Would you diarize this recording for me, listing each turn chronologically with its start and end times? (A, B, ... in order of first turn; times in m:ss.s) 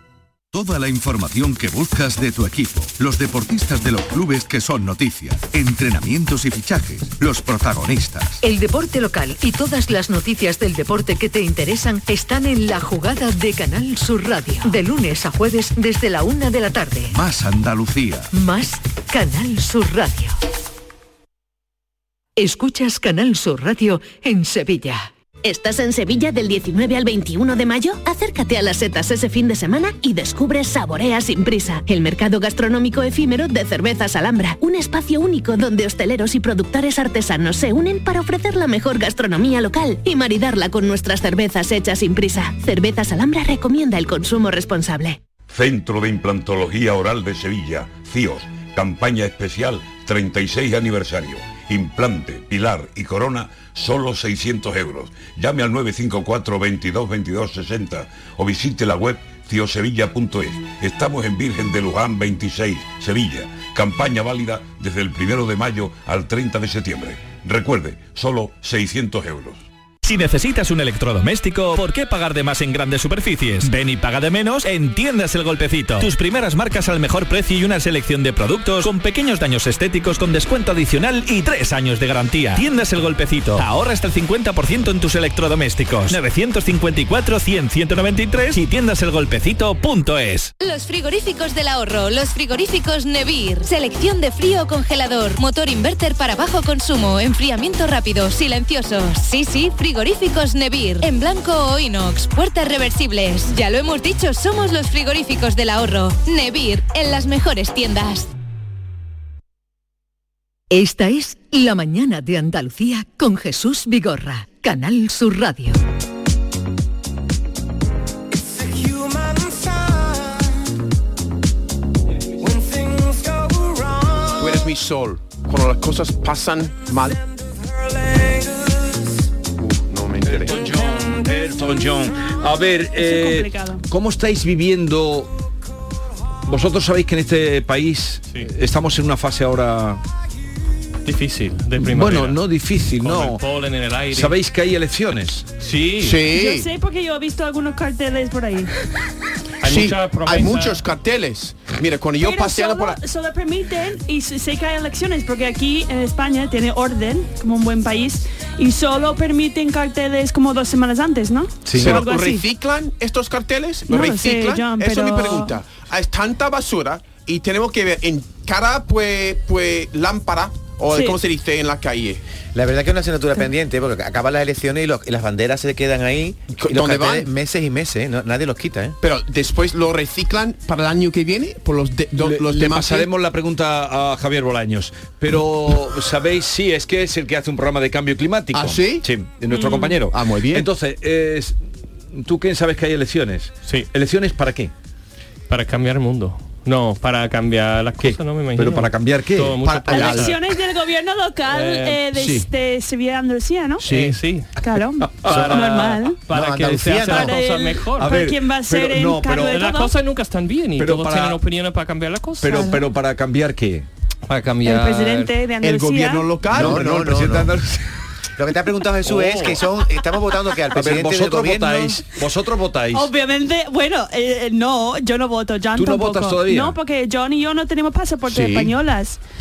0:00.5-0:08.4 A
0:08.4-0:17.2 B
0:17.1-0:18.3 A
0:18.3-0:20.4 B
0:22.4-0:25.1 B
0:25.4-0:45.2 C
0:45.5-1:09.6 D
1:10.0-1:30.5 E
1:30.6-1:48.3 F
1:50.7-1:55.8 B
2:04.3-2:07.2 G
2:09.7-2:10.5 G
2:10.2-2:15.3 H
2:12.9-2:13.8 I
2:16.5-2:20.0 H
2:21.0-2:22.4 J
2:21.8-2:23.4 H
2:23.0-2:24.4 J
2:24.1-2:25.4 H
2:25.6-2:26.2 J
2:26.0-2:26.7 G
2:26.3-2:28.7 I
2:29.6-2:30.8 J
2:29.6-2:33.0 G
2:32.2-2:42.4 I
2:41.7-2:42.0 A
2:41.8-2:52.2 G
2:43.9-2:45.6 I
2:50.9-2:51.2 I
2:52.5-2:59.0 K
2:56.6-2:57.3 G
2:59.0-3:03.1 G
3:02.2-3:11.6 H
3:08.5-3:09.0 G
3:09.5-3:10.0 I
3:10.1-3:10.7 G
3:12.1-3:14.7 H
3:15.5-3:20.4 J
3:18.0-3:19.6 H
3:19.6-3:20.4 G
3:19.9-3:23.8 I
3:21.5-3:22.0 J
3:22.1-3:22.5 G
3:23.8-3:24.2 G
3:23.8-3:24.5 J
3:24.6-3:26.2 I
3:25.2-3:25.6 H
3:25.2-3:28.2 J
3:26.3-3:27.4 K
3:27.0-3:29.9 I
3:28.0-3:29.6 H
3:29.4-3:32.7 J
3:30.8-3:31.4 H
3:32.4-3:33.9 H
3:32.5-3:32.8 I
3:34.3-3:35.3 J
3:34.6-3:36.4 I
3:35.6-3:37.2 G
3:36.5-3:37.5 K
3:36.5-3:37.9 H
3:38.4-3:42.0 K
3:39.0-3:39.6 H
3:40.7-3:43.1 H
3:42.9-3:49.2 I
3:45.7-3:46.8 H
3:48.2-3:48.7 G